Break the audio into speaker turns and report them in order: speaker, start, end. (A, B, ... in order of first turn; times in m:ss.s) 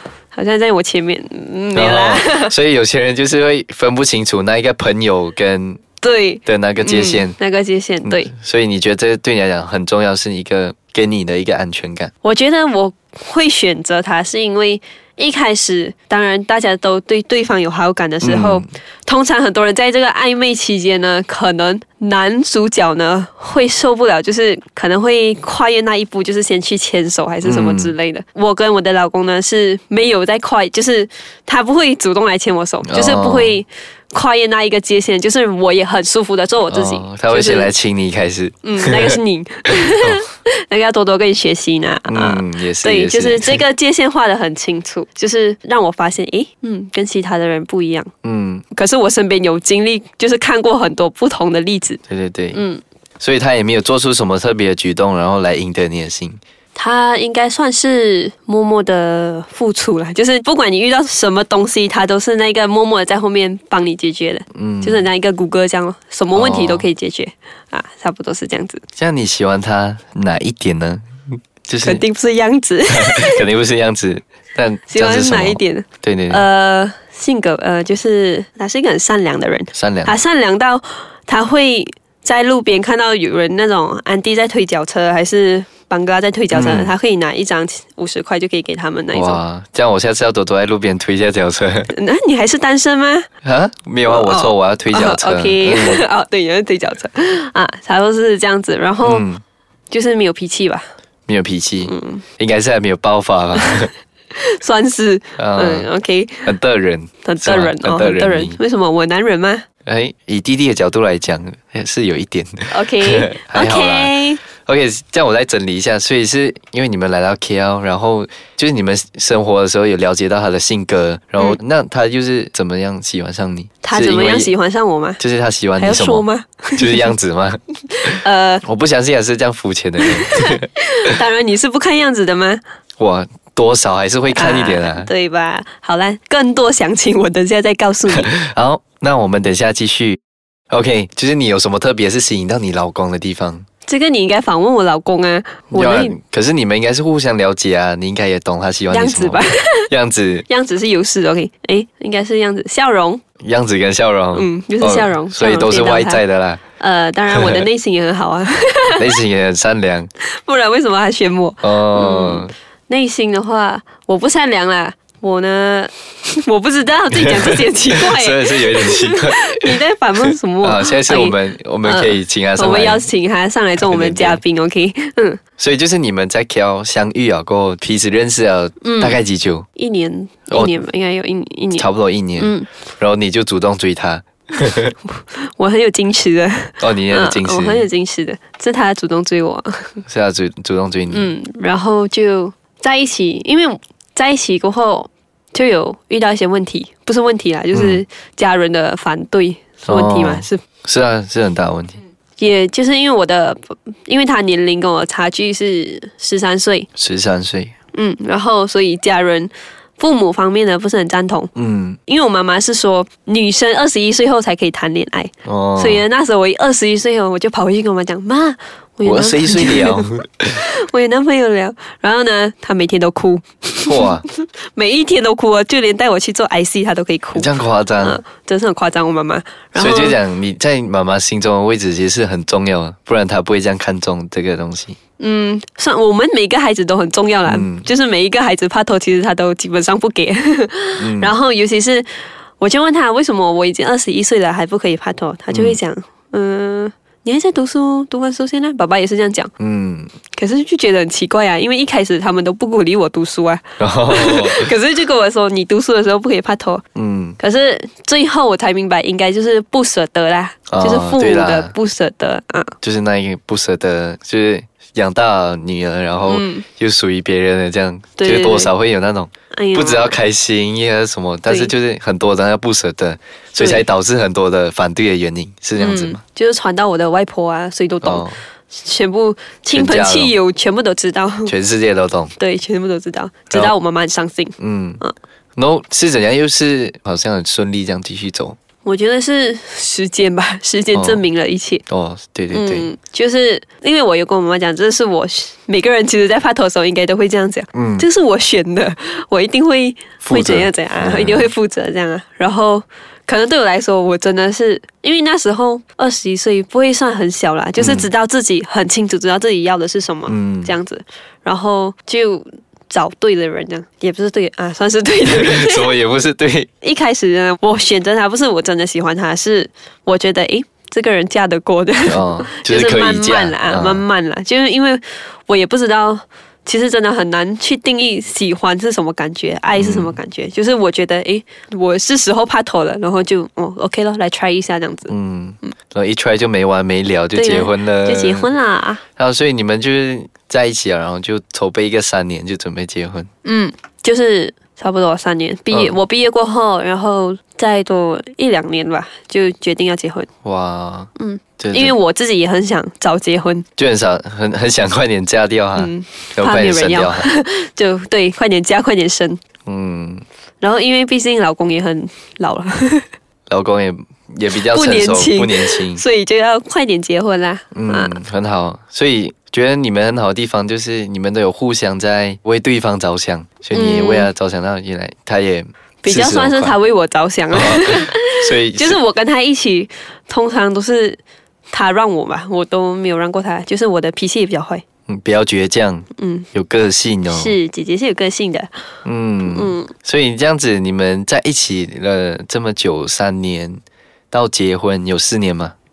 0:00.3-0:02.5 A
0:01.7-0:05.8 B
0:06.0-0:08.3 A
0:06.4-0:07.4 B
0:08.0-0:12.1 B
0:12.2-0:37.7 A
0:18.2-0:18.6 B
0:27.4-0:27.9 B
0:32.9-0:33.6 B
0:36.7-0:39.2 B
0:38.6-0:48.1 A
0:42.1-0:43.6 B
0:48.2-0:48.6 B
0:48.7-0:52.0 A
0:52.1-0:52.6 B
0:52.5-0:52.8 A
0:53.2-0:56.4 B
0:56.7-1:08.8 A
1:04.5-1:05.0 B
1:06.3-1:06.9 B
1:09.0-1:12.0 B
1:11.8-1:13.4 A
1:12.9-1:16.4 B
1:14.9-1:29.4 A
1:19.7-1:20.2 B
1:26.5-1:26.9 B
1:29.1-1:31.9 B
1:31.9-1:33.3 A
1:33.4-1:36.0 B
1:34.0-1:39.3 A
1:39.0-1:39.4 B
1:39.9-1:40.8 A
1:41.3-1:43.9 B
1:41.8-1:42.2 A
1:43.6-1:43.8 A
1:44.3-1:46.5 A
1:45.4-1:45.9 B
1:46.4-1:48.6 B
1:47.2-1:49.6 A
1:49.8-2:04.5 B
1:52.7-1:54.4 A
2:03.8-2:05.2 A
2:05.2-2:06.2 B
2:05.8-2:07.1 A
2:06.8-2:10.6 B
2:08.1-2:08.6 A
2:10.0-2:12.6 A
2:13.0-2:15.1 B
2:14.3-2:18.3 A
2:18.1-2:20.2 B
2:20.7-2:23.6 B
2:23.8-2:26.2 A
2:25.7-2:30.4 B
2:28.9-2:29.9 A
2:30.5-2:33.2 A
2:33.4-2:36.6 B
2:34.3-2:36.2 A
2:36.8-2:39.0 A
2:37.3-2:37.6 B
2:39.0-2:40.1 B
2:40.3-2:55.4 A
2:41.6-2:42.5 B
2:47.2-2:49.8 B
2:50.6-2:53.0 B
2:53.8-2:54.4 B
2:55.6-2:59.7 B
2:58.8-2:59.2 A
2:59.8-3:01.9 A
3:00.5-3:00.7 B
3:01.8-3:04.9 B
3:02.4-3:02.7 A
3:05.1-3:10.0 A
3:06.8-3:07.9 B
3:10.0-3:11.3 B
3:11.1-3:20.6 A
3:17.7-3:18.0 B
3:19.8-3:22.0 B
3:22.4-3:26.9 A
3:27.0-3:27.7 B
3:27.9-3:31.5 A
3:31.5-3:32.0 B
3:32.1-3:50.2 A
3:35.4-3:36.0 B
3:39.0-3:40.6 B
3:43.8-3:44.2 B
3:47.3-3:48.2 B
3:49.8-3:55.0 B
3:55.2-4:02.1 A
3:57.4-3:57.9 B
4:01.0-4:01.3 B
4:02.6-4:09.5 A
4:05.5-4:05.8 B
4:09.6-4:10.1 B
4:10.3-4:16.8 A
4:13.8-4:14.7 B
4:16.9-4:17.4 B
4:17.4-4:22.7 A
4:20.7-4:21.7 B
4:22.8-4:36.2 B
4:26.3-4:26.6 A
4:28.2-4:28.7 A
4:29.5-4:30.2 A
4:33.6-4:33.8 A
4:35.8-4:41.5 A
4:38.0-4:38.4 B
4:39.7-4:40.3 B
4:41.4-4:42.3 B
4:42.4-4:45.1 A
4:44.6-4:45.0 B
4:45.6-4:48.6 B
4:48.8-4:51.8 A
4:50.9-4:51.2 B
4:51.9-4:52.9 B
4:52.5-5:15.9 A
4:57.7-4:58.0 B
5:00.2-5:01.5 B
5:07.8-5:08.1 B
5:10.3-5:10.7 B
5:15.2-5:16.7 B
5:16.8-5:35.1 A
5:22.0-5:24.0 B
5:29.7-5:30.2 B
5:35.1-5:38.5 B
5:37.3-5:39.0 A
5:39.2-5:43.3 B
5:43.4-5:50.3 A
5:45.7-5:46.0 B
5:50.4-5:51.9 B
5:51.2-5:53.6 A
5:53.8-5:57.3 B
5:55.8-5:59.4 A
5:59.6-6:00.2 B
6:00.6-6:03.0 A
6:03.5-6:06.0 B
6:04.5-6:08.2 A
6:07.7-6:16.8 B
6:13.7-6:14.3 A
6:16.0-6:24.8 A
6:17.5-6:19.0 B
6:25.1-6:27.6 B
6:26.2-6:26.5 A
6:27.3-6:28.7 A
6:29.0-6:35.7 B
6:29.4-6:29.9 A